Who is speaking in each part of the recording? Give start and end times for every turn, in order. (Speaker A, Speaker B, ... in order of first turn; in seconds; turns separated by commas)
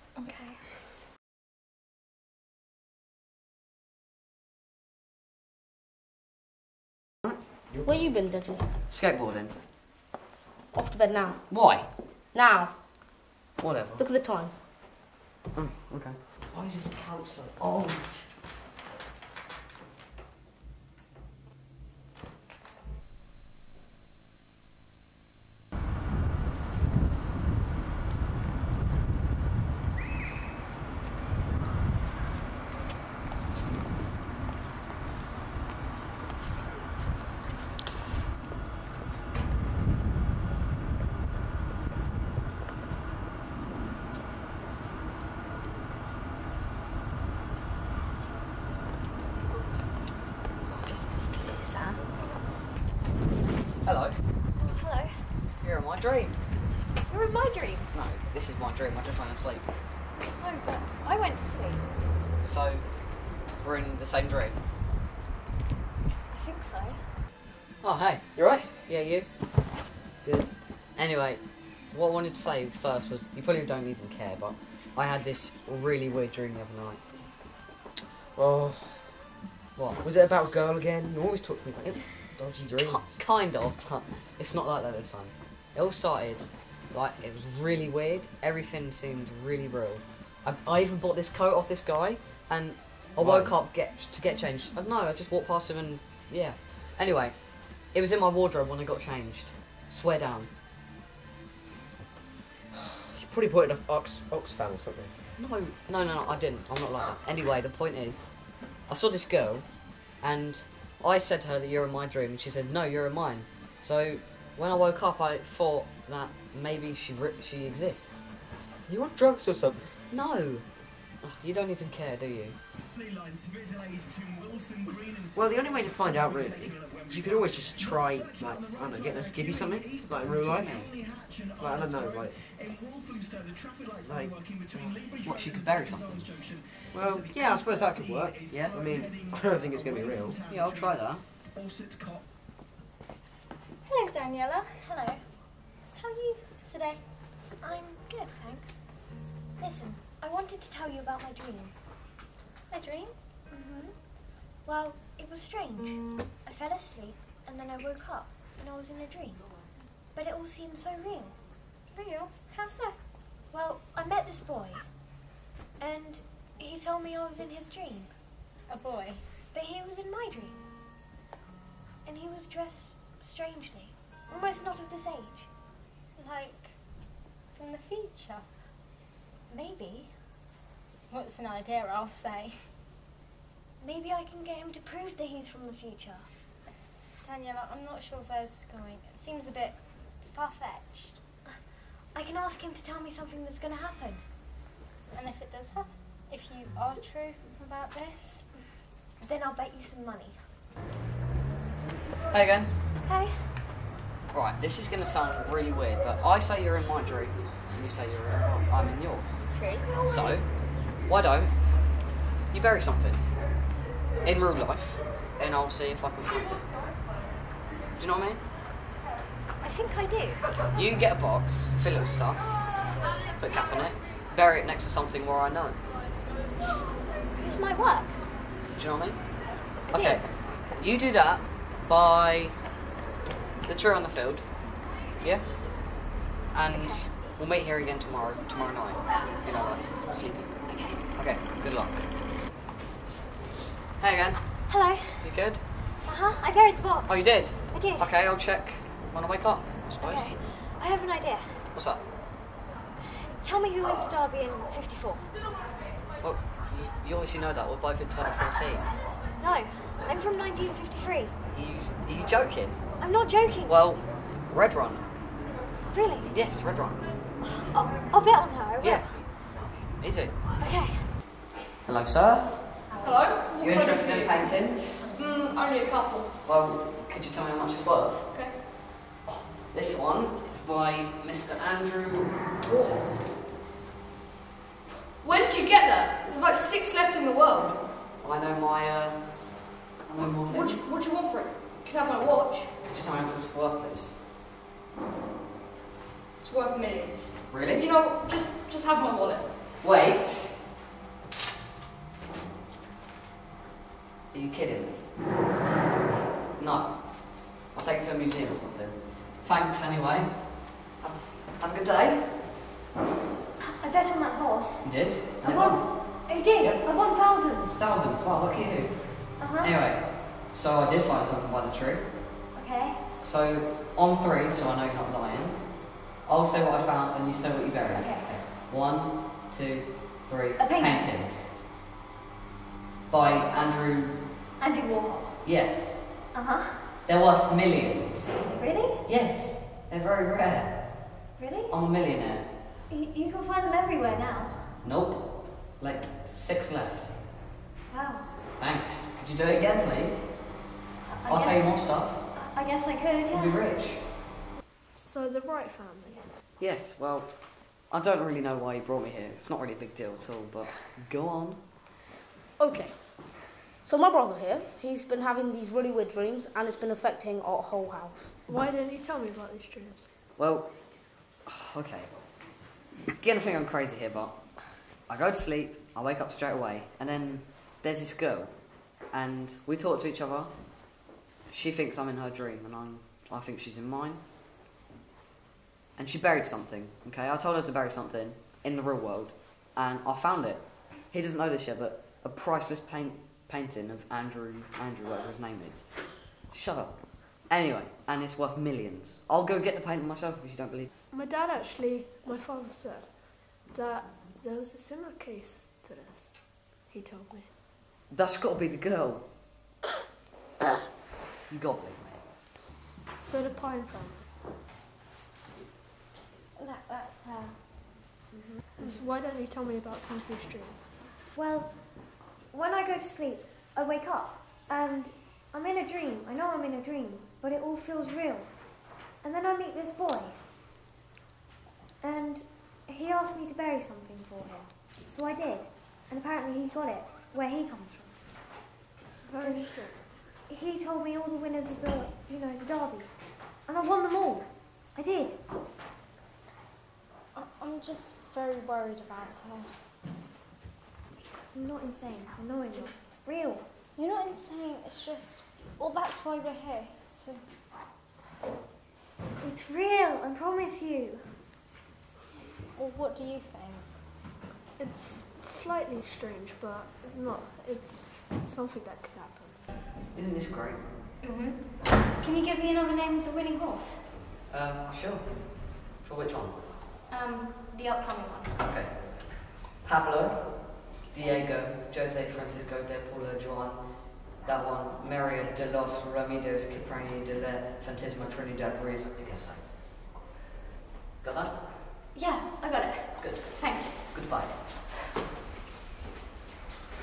Speaker A: 0.2-0.6, Speaker B: 7.8-8.7, Speaker C: 8.9-9.6, Speaker B: 10.7-11.5, Speaker C: 11.5-12.1, Speaker B: 12.1-12.8, Speaker C: 13.6-14.0, Speaker B: 14.0-14.6, Speaker C: 15.5-18.4, Speaker C: 53.8-54.2, Speaker A: 54.6-55.2, Speaker C: 55.6-56.4, Speaker A: 57.0-57.9, Speaker C: 57.9-59.7, Speaker A: 60.4-61.9, Speaker C: 62.4-64.6, Speaker A: 66.3-67.0, Speaker C: 67.8-69.3, Speaker D: 68.3-68.8, Speaker C: 70.2-77.1, Speaker D: 78.3-79.1, Speaker C: 79.8-80.0, Speaker D: 80.0-83.2, Speaker C: 82.8-100.5, Speaker D: 93.2-93.5, Speaker D: 103.1-105.1, Speaker C: 105.4-118.4, Speaker D: 118.9-120.0, Speaker C: 120.1-122.6, Speaker D: 125.3-132.5, Speaker C: 130.5-130.9, Speaker D: 134.0-135.1, Speaker C: 135.2-136.4, Speaker D: 136.9-140.4, Speaker C: 138.5-138.8, Speaker C: 140.5-141.2, Speaker E: 143.9-145.2, Speaker A: 145.9-146.4, Speaker E: 146.6-147.0, Speaker A: 147.6-148.8, Speaker A: 149.6-151.7, Speaker E: 152.7-153.2, Speaker A: 153.5-161.4, Speaker E: 161.9-162.8, Speaker A: 162.5-162.9, Speaker A: 163.4-165.1, Speaker A: 165.8-168.1, Speaker E: 168.7-169.2, Speaker A: 169.5-170.6, Speaker A: 172.1-175.5, Speaker E: 176.1-177.0, Speaker E: 177.5-178.5, Speaker A: 179.5-180.2, Speaker E: 181.1-182.7, Speaker A: 183.8-186.3, Speaker E: 187.2-191.2, Speaker A: 192.1-194.3, Speaker E: 195.1-198.5, Speaker A: 199.2-200.5, Speaker C: 202.3-202.7, Speaker A: 203.0-203.5, Speaker C: 204.3-211.9, Speaker C: 212.5-213.2, Speaker C: 214.2-216.9, Speaker C: 218.0-218.4, Speaker A: 219.6-220.4, Speaker C: 220.7-225.8, Speaker A: 227.3-228.2, Speaker C: 228.7-232.6, Speaker A: 229.9-230.5, Speaker C: 233.7-242.3, Speaker A: 236.7-237.1, Speaker A: 240.7-241.0, Speaker C: 244.0-245.7, Speaker A: 244.7-245.5, Speaker A: 246.0-248.1, Speaker C: 247.1-250.4, Speaker A: 250.0-251.7, Speaker C: 251.7-252.0, Speaker A: 253.1-255.3, Speaker C: 253.8-254.1, Speaker C: 256.2-258.9, Speaker A: 259.4-261.3, Speaker C: 261.5-263.1, Speaker A: 263.0-263.8, Speaker C: 263.6-265.1, Speaker A: 265.9-266.4, Speaker C: 266.3-267.2, Speaker A: 267.4-269.2, Speaker C: 268.8-270.4, Speaker A: 270.6-271.1, Speaker C: 271.9-272.9, Speaker A: 272.9-273.4, Speaker F: 273.0-274.4, Speaker C: 273.6-275.1, Speaker F: 275.1-276.3, Speaker C: 276.4-283.1, Speaker F: 285.2-287.8, Speaker C: 288.2-290.8, Speaker F: 290.5-292.7, Speaker C: 292.8-294.2, Speaker F: 296.4-299.6, Speaker C: 297.5-297.9, Speaker C: 299.8-300.6, Speaker C: 304.3-305.1, Speaker C: 306.6-312.4, Speaker A: 313.6-317.8, Speaker C: 314.8-317.1, Speaker C: 317.7-322.2, Speaker A: 319.4-319.7, Speaker A: 322.5-323.0, Speaker C: 323.2-331.4, Speaker A: 327.9-328.3, Speaker A: 330.6-331.1, Speaker C: 333.1-334.3, Speaker A: 334.6-335.4, Speaker C: 335.4-336.0, Speaker A: 336.3-336.8, Speaker C: 337.1-338.4, Speaker A: 338.5-339.0, Speaker C: 339.0-341.2, Speaker A: 341.4-341.7, Speaker C: 341.7-342.5, Speaker A: 342.9-344.6, Speaker C: 344.8-347.2, Speaker A: 347.9-348.3, Speaker C: 348.6-350.6, Speaker A: 351.1-353.6, Speaker C: 351.3-352.2, Speaker C: 353.3-354.1, Speaker G: 354.9-356.3, Speaker C: 356.6-361.6, Speaker B: 362.6-368.4, Speaker G: 368.5-370.1, Speaker C: 370.4-384.2, Speaker C: 386.0-400.9, Speaker G: 401.1-407.5, Speaker C: 408.1-409.3, Speaker C: 411.5-412.3, Speaker G: 413.2-414.2, Speaker A: 416.6-417.8, Speaker G: 418.8-420.9, Speaker A: 421.3-430.5, Speaker A: 432.0-438.2, Speaker G: 439.2-439.9, Speaker A: 439.4-445.4, Speaker E: 447.3-449.9, Speaker A: 451.5-453.7, Speaker E: 454.0-457.4, Speaker A: 459.4-461.4, Speaker E: 462.8-463.9, Speaker G: 464.8-469.6, Speaker C: 470.1-470.9, Speaker A: 471.2-474.1, Speaker C: 474.3-476.6, Speaker A: 477.1-478.5, Speaker C: 478.6-490.1, Speaker C: 491.2-491.8, Speaker A: 492.1-494.0, Speaker C: 493.2-494.7